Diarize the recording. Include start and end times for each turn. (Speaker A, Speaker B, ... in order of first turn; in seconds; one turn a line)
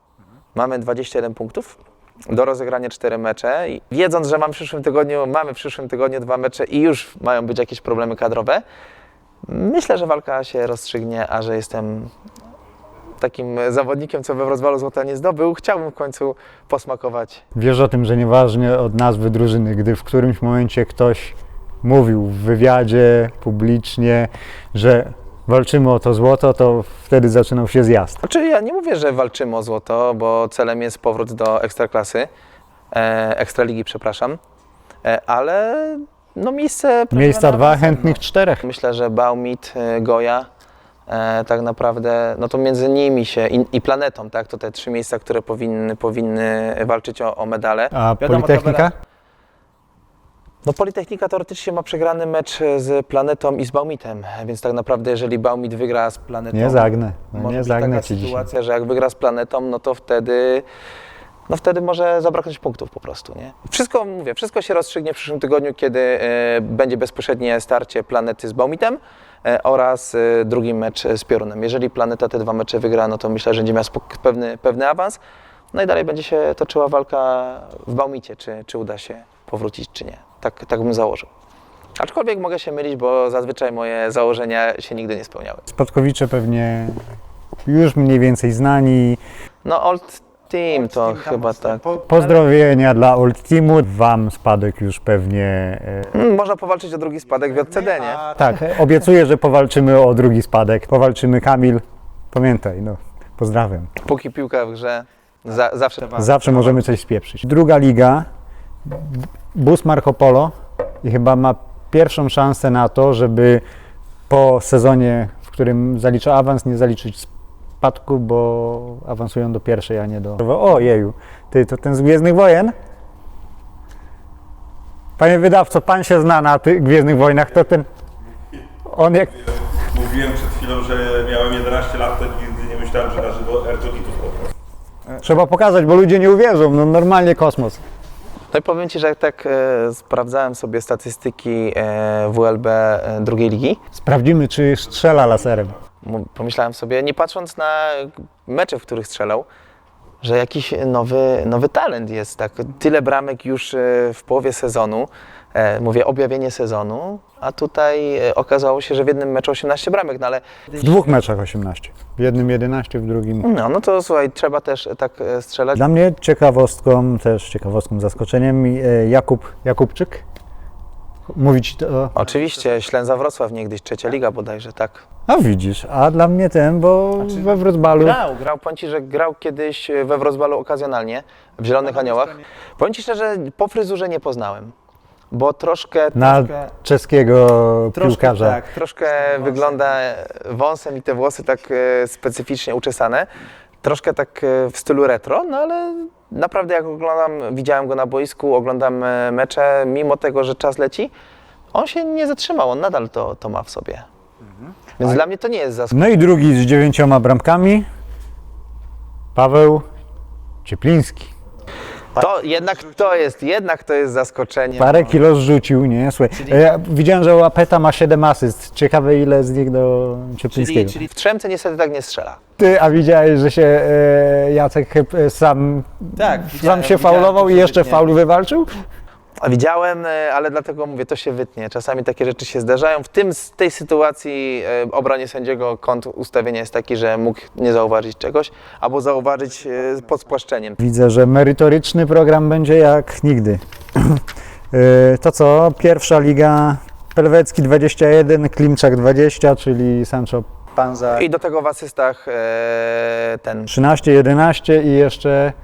Speaker A: 0.5-1.8
Speaker A: 2.3-8.6
Speaker A: 9.4-12.1
Speaker A: 13.2-17.4
Speaker B: 17.6-28.2
Speaker A: 28.2-32.3
Speaker A: 32.9-34.4
Speaker A: 35.0-40.5
Speaker B: 37.1-38.6
Speaker A: 41.1-48.9
Speaker B: 47.9-48.9
Speaker A: 50.6-60.6
Speaker B: 56.5-58.5
Speaker A: 61.5-75.2
Speaker A: 75.7-81.3
Speaker A: 82.0-85.7
Speaker B: 85.7-87.0
Speaker B: 87.7-89.2
Speaker A: 89.6-91.9
Speaker B: 90.9-96.1
Speaker A: 96.1-98.3
Speaker B: 97.8-103.9
Speaker A: 104.0-106.8
Speaker B: 106.1-108.3
Speaker B: 108.9-113.6
Speaker B: 114.3-117.3
Speaker B: 117.8-122.8
Speaker B: 125.2-127.9
Speaker B: 128.9-129.5
Speaker C: 129.9-134.4
Speaker B: 135.2-137.8
Speaker A: 138.5-143.8
Speaker B: 144.0-145.8
Speaker A: 146.0-149.5
Speaker A: 150.2-161.2
Speaker B: 160.8-163.5
Speaker A: 163.4-165.8
Speaker B: 165.8-170.2
Speaker B: 171.3-172.2
Speaker A: 172.2-175.0
Speaker B: 175.3-178.2
Speaker A: 177.2-184.7
Speaker A: 185.3-186.7
Speaker B: 186.2-188.6
Speaker A: 187.9-193.3
Speaker A: 193.8-201.1
Speaker A: 201.7-204.1
Speaker A: 205.0-206.2
Speaker B: 205.9-207.9
Speaker B: 209.3-209.8
Speaker B: 210.7-211.3
Speaker A: 212.2-215.2
Speaker B: 214.8-221.0
Speaker A: 216.4-216.6
Speaker A: 220.5-222.4
Speaker B: 222.6-228.7
Speaker A: 226.2-228.0
Speaker A: 229.4-240.8
Speaker B: 240.8-251.2
Speaker A: 251.1-253.7
Speaker B: 253.7-255.6